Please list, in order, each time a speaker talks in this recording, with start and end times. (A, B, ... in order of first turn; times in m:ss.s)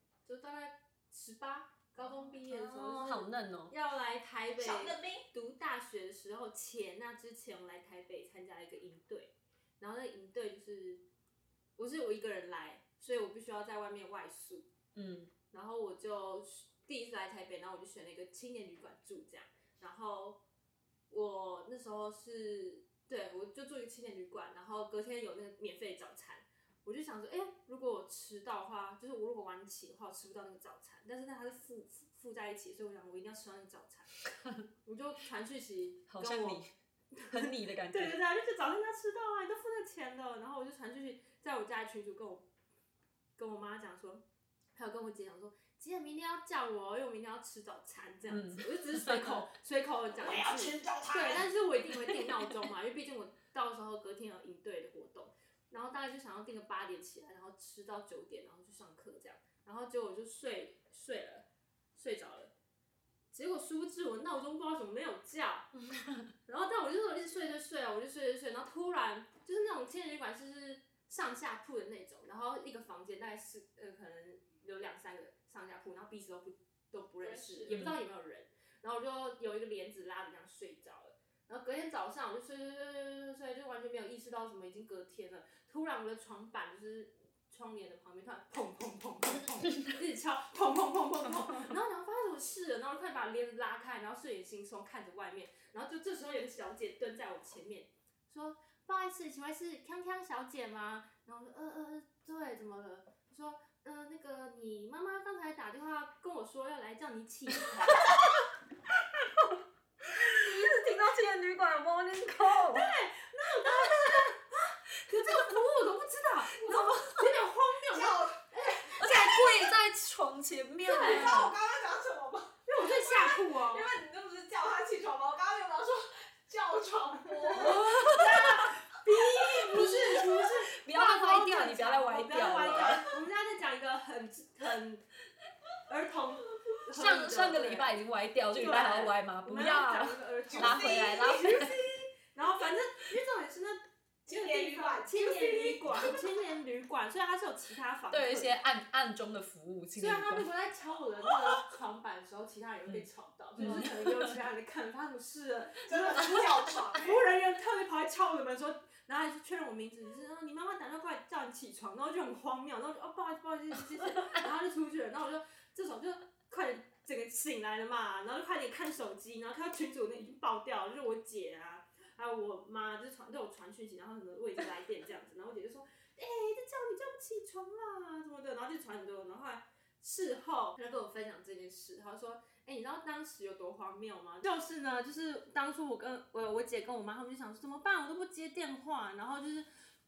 0:00.2-0:11.0 A
0:02.4-0:03.7 B
0:04.6-0:05.3 C
0:11.8-0:14.7 A
0:14.9-0:15.3 B
0:15.5-0:20.4 A
0:21.1-0:34.1 A
0:34.8-0:36.6 A
0:36.1-0:36.7 B
0:37.1-0:42.5 A
0:37.3-0:38.2 B
0:43.4-0:44.2 A
0:44.7-1:02.5 A
0:48.3-0:49.5 B
0:50.2-0:51.4 C
1:03.3-1:05.7 A
1:05.7-1:06.3 B
1:06.5-1:48.1 A
1:17.2-1:17.8 C
1:17.7-1:18.0 B
1:50.0-1:52.9 B
1:52.6-1:54.4 A
1:53.6-1:54.3 B
1:55.0-1:59.3 A
1:55.1-1:55.5 B
1:56.6-1:57.4 B
1:57.9-1:59.6 C
1:58.8-2:01.6 B
2:00.8-2:10.2 C
2:01.0-2:01.3 A
2:02.6-2:03.9 A
2:07.3-2:15.0 A
2:07.5-2:08.6 B
2:09.6-2:13.0 B
2:15.9-2:17.9 A
2:16.9-2:21.7 B
2:18.5-2:28.6 A
2:20.5-2:21.4 C
2:24.3-2:26.2 C
2:25.9-2:26.2 B
2:28.1-2:30.5 B
2:29.9-3:09.7 A
2:33.6-2:34.3 B
2:35.8-2:37.2 C